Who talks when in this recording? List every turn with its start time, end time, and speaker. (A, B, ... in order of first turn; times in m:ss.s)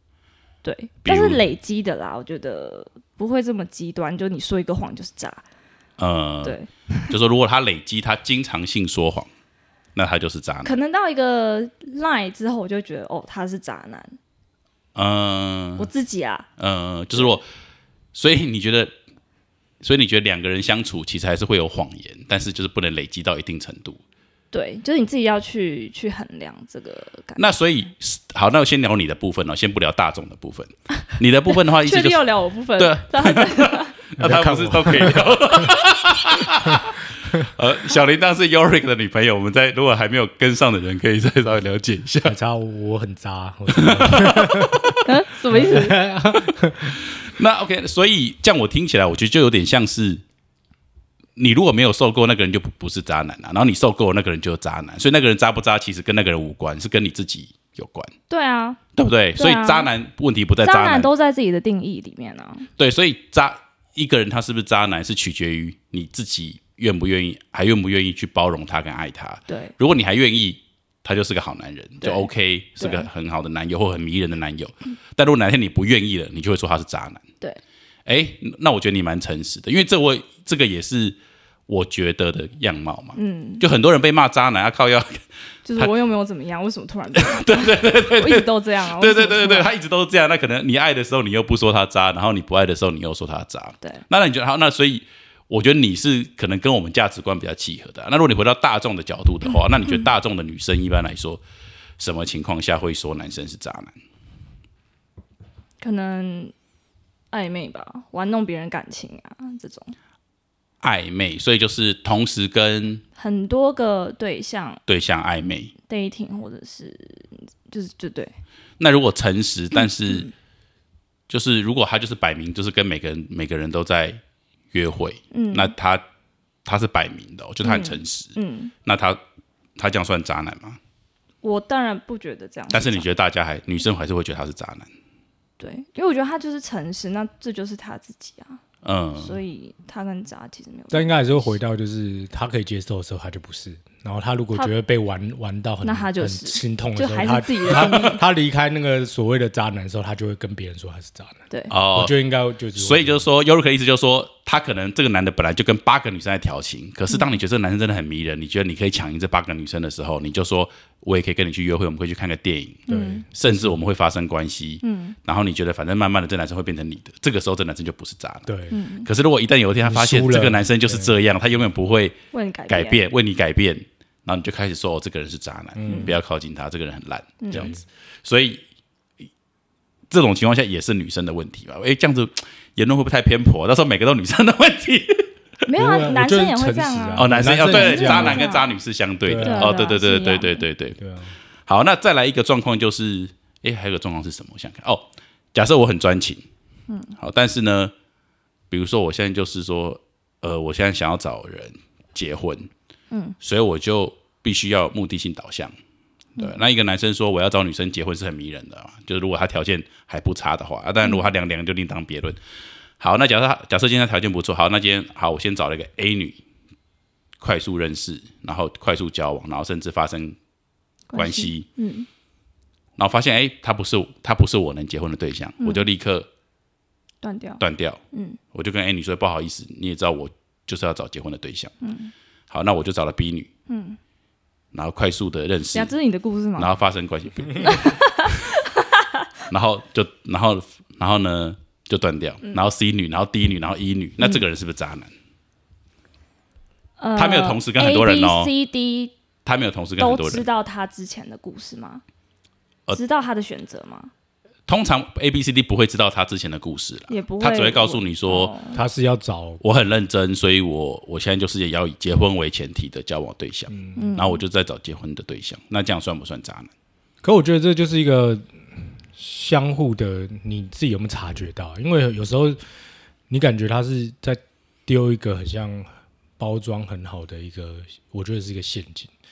0:00.6-0:05.4 A
0:01.0-0:01.4 B
0:06.0-0:06.6 B
0:06.4-0:07.1 A
0:07.1-0:09.3 B
0:09.9-0:10.8 B
0:10.6-0:14.2 A
0:15.0-0:15.9 B
0:15.8-0:16.5 A
0:16.6-0:17.4 B
0:18.1-0:18.9 B
0:19.8-0:24.0 B
0:24.5-0:27.4 A
0:27.4-0:32.2 B
0:31.5-0:34.0 A
0:32.8-0:42.4 B
0:34.2-0:35.3 C
0:42.2-0:45.0 C
0:43.7-0:45.0 B
0:45.0-0:46.0 A
0:45.5-0:47.0 C
0:46.9-0:50.2 B
0:51.4-0:58.1 B
0:58.3-0:58.8 A
0:59.0-1:01.1 B
0:59.4-0:59.9 A
1:00.6-1:02.7 A
1:02.8-1:17.2 B
1:09.5-1:09.7 A
1:12.0-1:12.3 A
1:12.8-1:13.1 A
1:18.0-1:21.2 B
1:21.7-1:25.2 B
1:23.2-1:23.6 A
1:25.6-1:29.7 A
1:27.2-1:41.4 B
1:39.4-1:40.1 A
1:42.0-1:43.9 B
1:45.8-1:46.5 A
1:47.3-1:50.0 A
1:50.8-1:53.0 B
1:53.2-1:54.8 A
1:54.9-1:55.7 B
1:55.9-1:58.3 A
1:58.8-2:00.3 B
1:59.7-2:00.3 A
2:01.3-2:04.2 B
2:04.7-2:06.0 B
2:05.3-2:05.7 A
2:06.6-2:08.3 B
2:07.6-2:08.7 A
2:08.8-2:09.2 B
2:09.8-2:10.8 B
2:11.4-2:13.1 A
2:12.7-2:14.9 B
2:15.6-2:18.6 A
2:18.8-2:19.4 B
2:19.2-2:21.6 A
2:20.9-2:31.4 C
2:25.8-2:28.2 A
2:31.7-2:32.1 B
2:31.9-2:33.2 C
2:32.7-2:48.5 B
2:37.1-2:37.4 A
2:42.9-2:43.2 A
2:42.9-2:43.7 C
2:44.8-2:45.2 A
2:48.5-2:48.8 C
2:48.7-2:49.1 A
2:49.0-2:52.2 B
2:49.8-2:51.1 C
2:52.3-2:53.0 A
2:52.7-2:58.6 B
2:55.8-2:56.1 C
2:55.8-2:56.1 A
2:57.4-2:57.7 A
2:57.5-2:57.8 C
3:00.1-3:05.3 B
3:05.7-3:08.7 A
3:05.7-3:08.5 C
3:07.2-3:11.0 B
3:09.2-3:09.7 C
3:09.4-3:10.6 A
3:11.0-3:11.3 C
3:11.6-3:16.4 B
3:16.9-3:17.1 A
3:17.2-3:17.9 B
3:18.7-3:22.7 B
3:23.1-3:23.4 A
3:23.4-3:25.7 B
3:26.4-3:32.4 B
3:33.0-3:36.4 B
3:37.4-3:40.4 B
3:41.1-3:42.1 A
3:41.1-3:41.6 B
3:43.0-3:46.3 B
3:45.6-3:45.8 A
3:47.2-3:48.4 A
3:47.6-3:48.0 B
3:48.5-3:51.7 B
3:51.8-3:52.1 A
3:52.5-3:53.5 B
3:53.7-3:54.0 A
3:54.7-3:55.9 B
3:55.7-3:56.7 A
3:56.6-3:58.0 B
3:57.6-3:59.1 A
3:59.5-4:05.1 B
4:07.0-4:09.1 A
4:07.2-4:08.5 B
4:09.4-4:10.4 B
4:10.0-4:12.0 A
4:12.9-4:14.1 A
4:14.7-4:18.5 B
4:17.1-4:18.8 A
4:18.7-4:19.6 C
4:19.6-4:26.7 B
4:23.7-4:24.1 C
4:24.0-4:24.4 A
4:27.2-4:28.5 C
4:29.1-4:32.6 C
4:33.3-4:39.1 C